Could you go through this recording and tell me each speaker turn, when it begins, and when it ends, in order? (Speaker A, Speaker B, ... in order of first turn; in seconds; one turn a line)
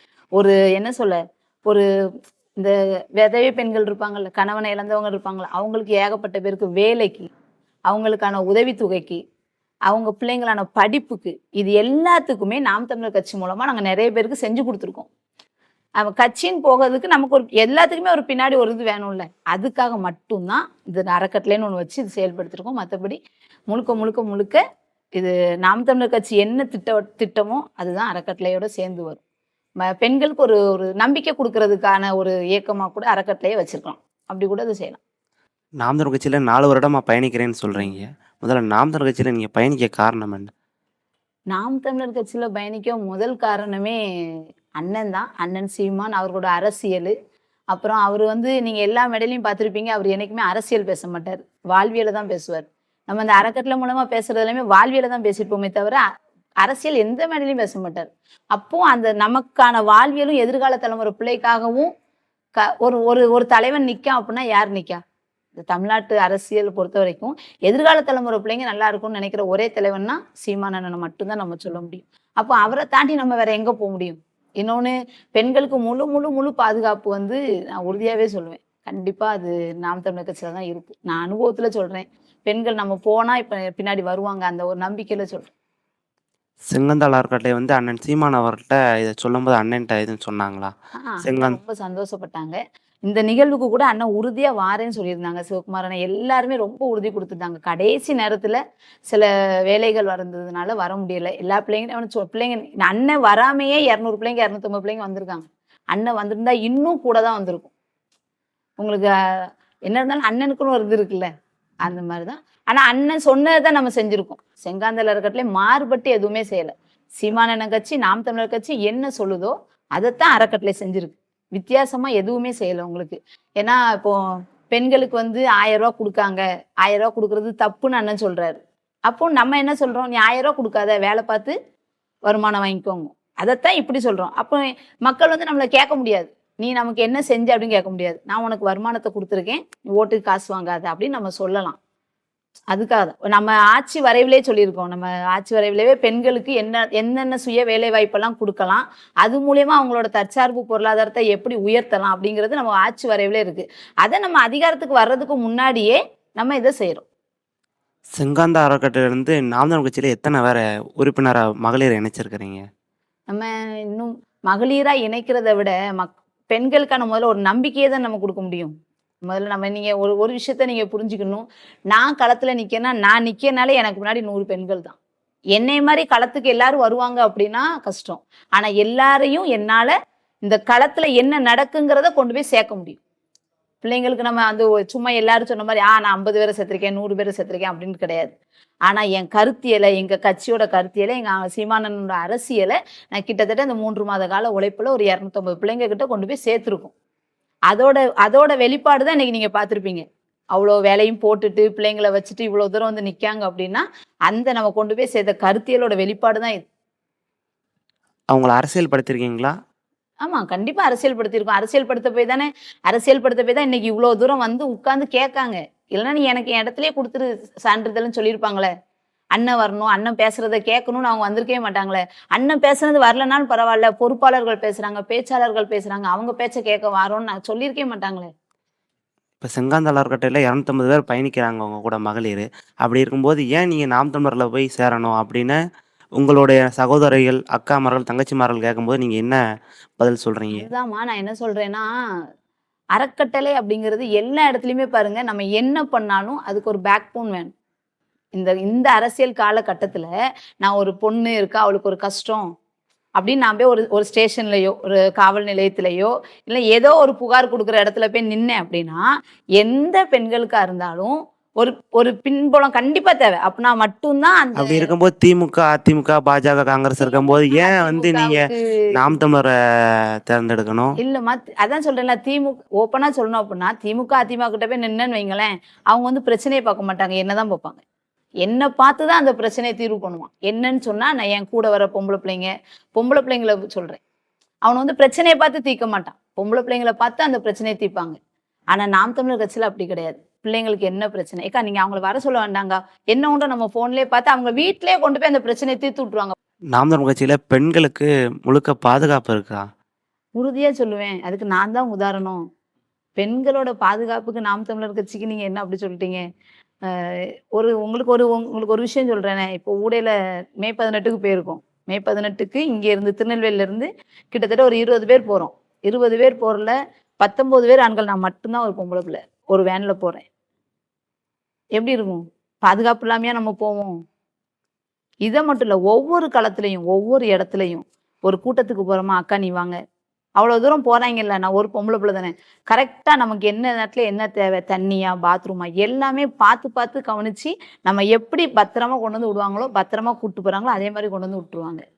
Speaker A: 0.4-1.8
Speaker A: 2.6-7.3
Speaker A: 7.9-9.2
Speaker A: 9.9-15.1
Speaker A: 16.0-23.2
Speaker A: 23.7-24.6
Speaker A: 25.2-29.2
Speaker A: 29.8-35.0
Speaker B: 35.8-40.5
Speaker A: 37.8-38.0
Speaker A: 41.5-44.0
Speaker A: 44.8-47.1
Speaker A: 47.7-56.0
Speaker A: 56.6-61.9
Speaker A: 62.6-65.0
Speaker A: 65.6-85.5
Speaker B: 86.7-90.7
Speaker A: 91.0-98.6
Speaker B: 91.2-91.6
Speaker A: 99.1-107.7
Speaker A: 108.8-111.3
Speaker A: 111.8-124.2
Speaker A: 124.7-131.5
Speaker A: 132.3-141.8
Speaker A: 142.7-157.0
Speaker B: 158.2-162.6
Speaker A: 163.3-168.7
Speaker A: 169.2-175.0
Speaker A: 175.5-183.0
Speaker A: 183.8-188.3
Speaker A: 188.9-196.9
Speaker A: 197.7-206.6
Speaker B: 208.3-209.5
Speaker A: 210.2-218.7
Speaker A: 219.3-228.3
Speaker B: 229.4-235.6
Speaker B: 236.2-239.4
Speaker B: 240.0-240.7
Speaker A: 240.5-241.9
Speaker A: 242.9-247.5
Speaker A: 248.3-252.4
Speaker A: 253.2-259.0
Speaker A: 259.6-264.9
Speaker B: 264.6-268.4
Speaker A: 267.0-268.7
Speaker B: 268.9-269.5
Speaker B: 270.3-270.9
Speaker A: 271.0-277.8
Speaker A: 278.4-284.0
Speaker A: 284.6-288.2
Speaker A: 288.7-296.3
Speaker B: 296.7-299.6
Speaker A: 300.4-302.4
Speaker A: 303.2-306.2
Speaker A: 306.9-320.2
Speaker A: 321.8-323.9
Speaker A: 325.2-329.8
Speaker A: 330.4-341.8